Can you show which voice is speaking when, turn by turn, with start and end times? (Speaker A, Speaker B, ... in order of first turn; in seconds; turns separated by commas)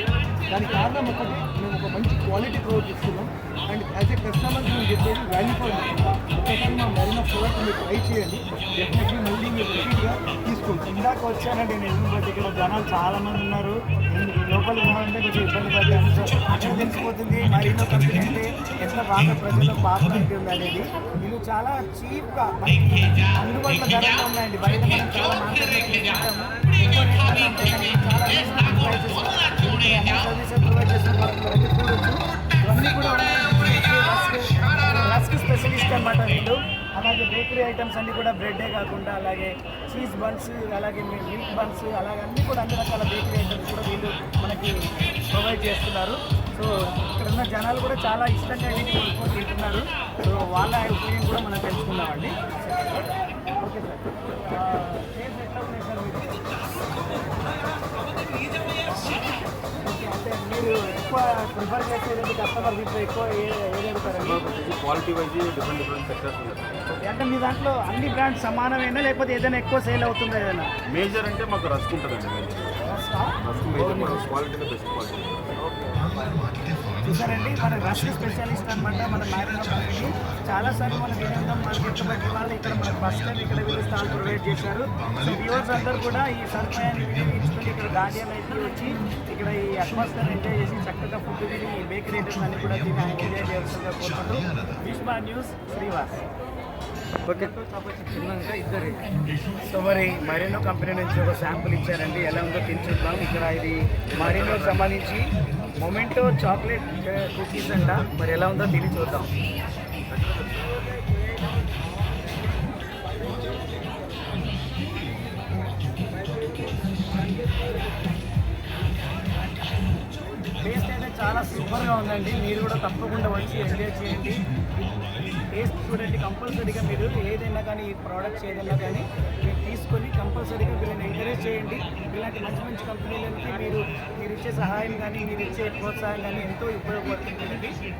Speaker A: 0.5-10.9, Speaker B: 10.8-56.4, Speaker B: 59.7-64.5, Speaker C: 64.3-66.7, Speaker B: 66.9-70.7, Speaker C: 70.9-72.7, Speaker B: 72.8-73.4, Speaker C: 73.4-75.3, Speaker A: 73.7-74.3, Speaker B: 73.9-74.2, Speaker B: 75.6-76.4, Speaker B: 77.0-96.2, Speaker A: 97.3-99.0, Speaker B: 99.6-109.3, Speaker C: 104.1-104.7, Speaker B: 120.6-124.4, Speaker B: 125.5-137.8